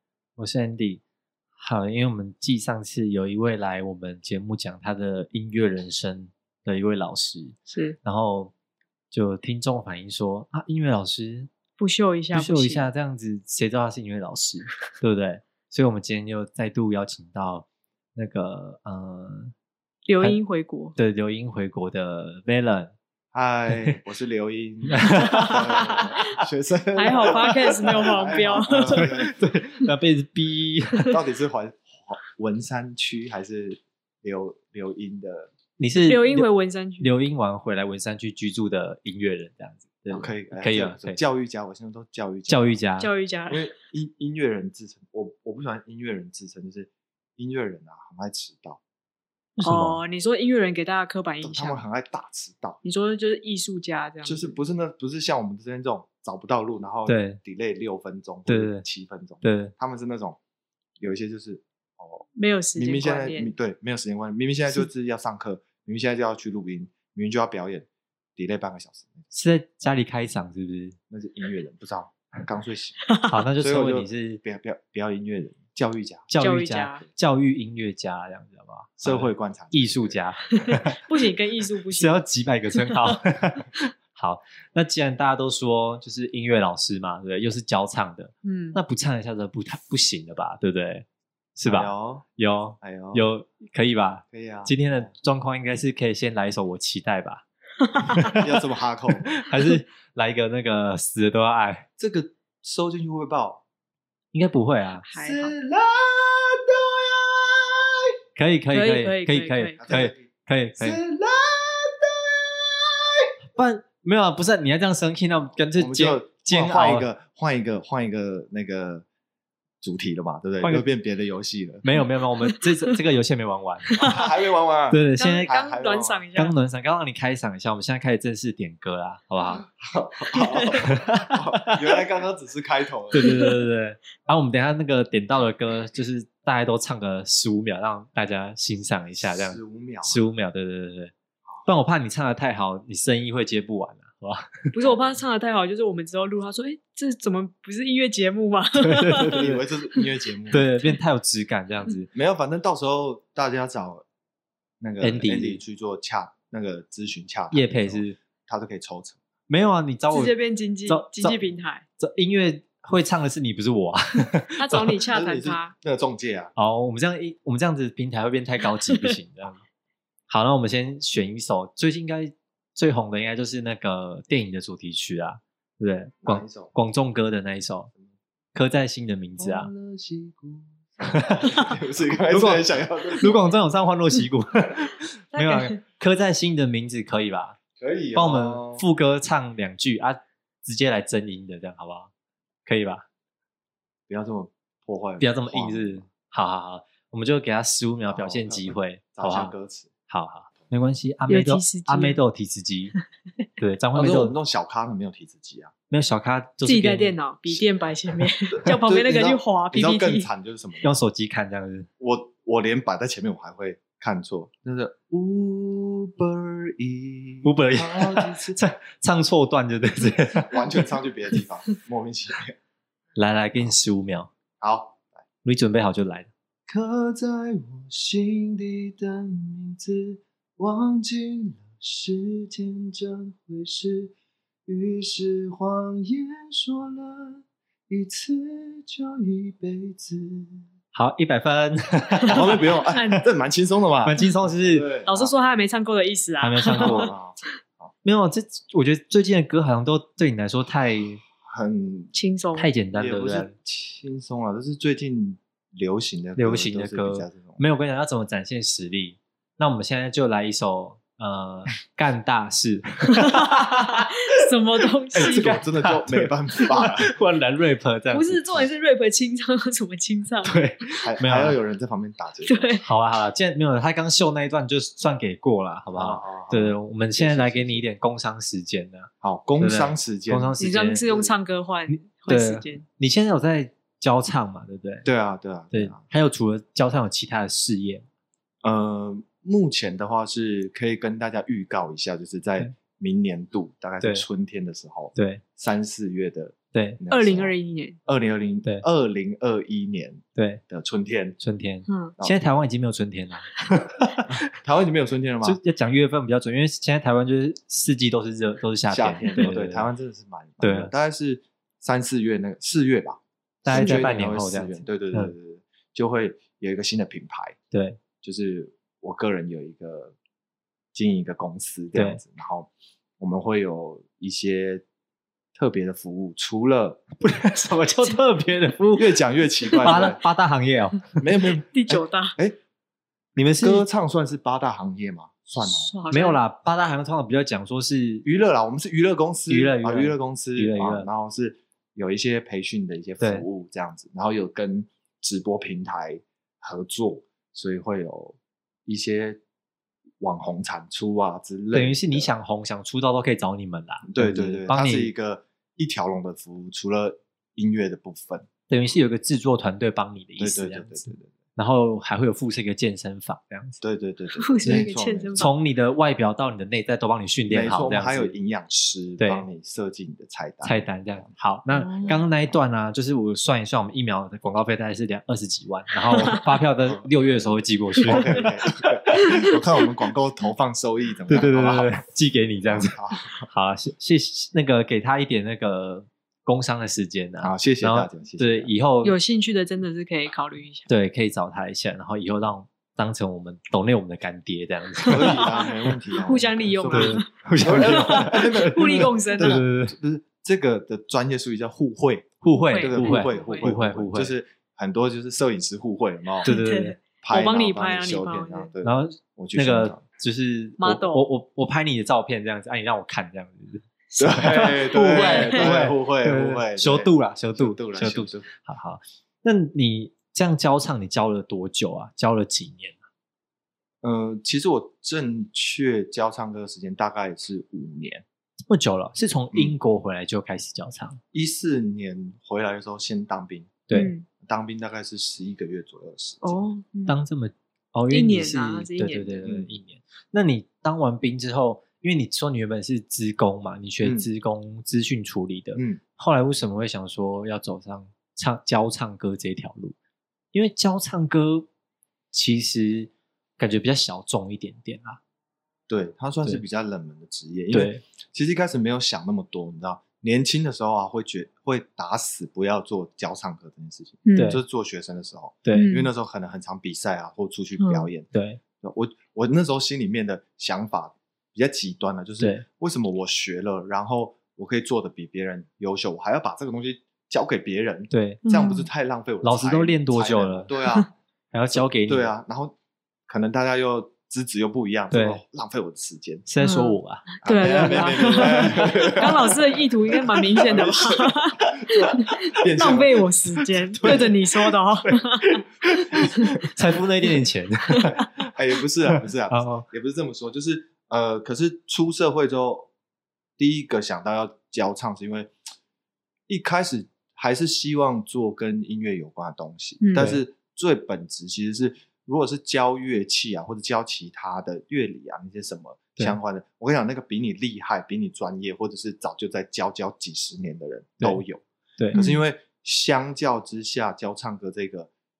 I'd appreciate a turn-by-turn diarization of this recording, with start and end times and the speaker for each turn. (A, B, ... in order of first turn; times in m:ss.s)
0:00.4-0:01.0 A
0:01.6-0:08.5 A
0:07.7-0:08.0 B
0:09.1-0:11.5 A
0:11.8-0:12.9 B
0:12.3-0:19.5 A
0:20.0-0:21.0 B
0:21.0-0:22.9 A
0:23.3-0:29.4 C
0:23.7-0:24.0 A
0:24.9-0:26.2 A
0:26.9-0:29.1 B
0:27.2-0:28.0 A
0:28.8-0:31.2 A
0:31.1-0:35.5 C
0:35.8-0:36.5 A
0:36.1-0:37.1 B
0:37.0-0:41.2 A
0:40.1-0:42.8 C
0:42.5-0:43.1 A
0:43.0-0:43.7 B
0:43.5-0:48.8 C
0:49.6-0:50.0 A
0:49.6-0:51.8 B
0:51.4-0:52.8 C
0:52.8-0:54.6 B
0:54.2-1:00.4 C
0:57.0-0:57.4 A
0:58.5-0:58.8 A
0:59.4-0:59.7 A
1:01.0-1:09.2 C
1:02.4-1:03.5 B
1:09.3-1:11.0 A
1:11.1-1:13.0 C
1:13.2-1:14.4 A
1:13.6-1:16.3 C
1:16.3-1:21.0 A
1:16.4-1:17.0 B
1:19.0-1:20.2 C
1:20.7-1:22.2 B
1:21.9-1:31.0 A
1:22.7-1:23.2 B
1:28.4-1:28.8 B
1:31.6-1:37.4 A
1:31.6-1:32.2 C
1:32.8-1:33.2 C
1:34.3-1:35.1 C
1:38.0-1:38.4 A
1:38.0-1:38.3 B
1:38.3-1:39.3 C
1:39.3-1:41.8 A
1:42.0-1:43.6 C
1:44.3-1:45.1 A
1:45.0-1:45.6 B
1:45.2-1:48.2 C
1:48.4-1:51.0 A
1:48.7-1:49.8 B
1:49.8-1:50.2 C
1:50.8-1:53.3 C
1:53.5-1:57.1 A
1:55.7-1:59.0 C
1:59.8-2:01.8 C
2:01.8-2:04.2 A
2:02.0-2:02.9 B
2:04.0-2:06.2 C
2:04.9-2:05.5 A
2:05.2-2:06.5 B
2:06.3-2:09.6 A
2:09.5-2:13.2 C
2:10.3-2:10.7 B
2:10.8-2:11.9 A
2:13.1-2:21.1 A
2:13.1-2:13.5 B
2:19.2-2:20.2 C
2:21.6-2:24.9 A
2:24.7-2:29.4 B
2:28.7-2:29.6 A
2:29.3-2:30.7 C
2:30.5-2:32.1 A
2:32.1-2:34.0 C
2:34.8-2:39.2 C
2:35.0-2:35.6 A
2:37.5-2:38.2 A
2:39.5-2:45.0 A
2:40.1-2:41.8 B
2:44.6-2:45.7 B
2:45.1-2:46.5 C
2:46.6-2:49.6 A
2:50.3-2:57.9 A
2:56.2-2:56.7 C
2:58.5-2:59.7 A
2:59.4-3:03.4 C
3:01.0-3:01.7 A
3:02.3-3:07.6 A
3:05.3-3:05.8 B
3:07.8-3:08.8 C
3:08.1-3:12.1 A
3:12.6-3:13.0 A
3:14.1-3:16.1 C
3:15.2-3:19.5 A
3:18.1-3:19.9 C
3:20.1-3:22.9 A
3:21.3-3:22.2 B
3:23.6-3:24.4 A
3:23.9-3:25.7 C
3:25.9-3:27.2 A
3:26.6-3:30.3 B
3:28.5-3:31.0 C
3:30.8-3:31.9 A
3:32.0-3:38.6 C
3:37.4-3:40.9 A
3:40.5-3:42.6 C
3:43.2-3:44.3 A
3:44.6-3:45.2 C
3:45.4-3:46.3 A
3:46.7-3:54.1 C
3:54.6-4:00.6 C
4:00.9-4:02.8 A
4:02.2-4:03.2 B
4:02.3-4:05.3 C
4:04.0-4:04.9 A
4:05.0-4:07.1 B
4:06.4-4:07.1 A
4:06.7-4:07.9 C
4:08.0-4:11.2 A
4:11.4-4:12.1 C
4:12.1-4:12.7 B
4:12.6-4:13.5 A
4:12.9-4:17.6 C
4:16.4-4:24.1 A
4:23.1-4:25.6 B
4:25.1-4:28.6 A
4:25.1-4:27.1 C
4:28.1-4:30.6 B
4:30.4-4:31.6 A
4:31.0-4:32.8 C
4:32.4-4:32.8 B
4:32.8-4:41.0 A
4:35.9-4:37.8 C
4:39.2-4:40.6 C
4:40.6-4:42.8 B
4:41.9-4:45.1 A
4:45.0-4:46.0 C
4:45.7-4:48.0 A
4:48.6-4:57.5 C
4:54.0-4:54.2 A
4:55.2-4:55.4 A
4:56.7-4:57.0 A
4:57.1-4:58.0 B
4:58.0-5:01.4 C
5:00.4-5:00.6 A
5:01.4-5:04.5 A
5:01.9-5:02.1 B
5:04.3-5:05.6 C
5:05.4-5:09.9 A
5:08.9-5:17.6 C
5:10.6-5:10.9 A
5:13.6-5:15.3 A
5:17.7-5:18.0 A
5:18.2-5:20.2 C
5:20.9-5:24.8 C
5:21.9-5:22.2 A
5:25.5-5:27.0 C
5:27.2-5:29.2 A
5:29.0-5:30.2 C
5:29.7-5:30.1 B
5:29.8-5:31.1 A
5:31.2-5:32.6 C
5:31.4-5:32.4 B
5:33.3-5:33.8 A
5:33.6-5:35.9 C
5:35.6-5:36.4 B
5:36.1-5:38.2 A
5:38.2-5:49.4 C
5:39.5-5:41.1 A
5:50.2-5:52.3 C
5:51.7-5:55.1 A
5:54.1-5:58.5 C
5:58.7-6:03.8 A
6:00.4-6:01.3 C
6:03.8-6:05.5 C
6:04.4-6:05.5 B
6:04.6-6:08.3 A
6:07.5-6:11.3 C
6:09.2-6:09.4 A
6:10.6-6:18.6 A
6:11.7-6:12.2 B
6:16.1-6:16.5 B
6:16.3-6:17.4 C
6:18.0-6:22.0 C
6:19.1-6:19.5 B
6:21.3-6:29.2 A
6:22.6-6:23.5 C
6:27.4-6:28.7 C
6:29.0-6:30.9 B
6:30.9-6:35.9 A
6:35.0-6:46.5 C
6:35.1-6:35.6 B
6:36.1-6:39.6 B
6:36.9-6:40.0 A
6:42.4-6:44.3 A
6:42.7-6:43.8 B
6:46.4-6:48.7 B
6:46.4-6:47.0 A
6:47.2-6:50.0 C
6:48.8-7:03.0 A
6:50.8-6:51.2 B
6:54.1-6:55.7 B
6:54.2-6:58.5 C
7:04.0-7:08.2 C
7:08.7-7:11.2 A
7:11.3-7:13.9 C
7:13.9-7:14.2 B
7:14.4-7:16.6 C
7:16.4-7:17.2 B
7:17.0-7:29.9 A
7:18.1-7:19.4 B
7:19.4-7:19.7 C
7:24.0-7:24.3 C
7:25.7-7:26.0 C
7:30.5-7:31.7 A
7:32.3-7:35.2 A
7:35.9-7:48.3 C
7:37.7-7:38.0 A
7:44.2-7:44.6 B
7:44.4-7:44.6 A
7:45.6-7:45.9 A
7:45.7-7:46.1 B
7:47.8-7:48.1 B
7:48.3-7:48.6 A
7:48.8-8:01.1 C
7:52.4-7:52.6 A
7:58.1-7:58.4 A
7:58.4-7:58.9 B
7:59.4-8:00.7 A
8:01.5-8:02.3 A
8:01.7-8:02.8 C
8:03.3-8:06.4 C
8:05.1-8:05.4 A
8:06.5-8:09.3 A
8:06.6-8:16.5 B
8:07.4-8:13.3 C
8:13.9-8:14.4 C
8:14.0-8:14.3 A
8:16.1-8:16.4 C
8:16.3-8:18.2 A
8:18.0-8:18.2 B
8:18.0-8:22.9 C
8:19.1-8:19.9 A
8:23.6-8:25.5 C
8:26.5-8:45.1 C
8:30.0-8:30.3 B
8:30.2-8:30.4 A
8:42.1-8:42.4 B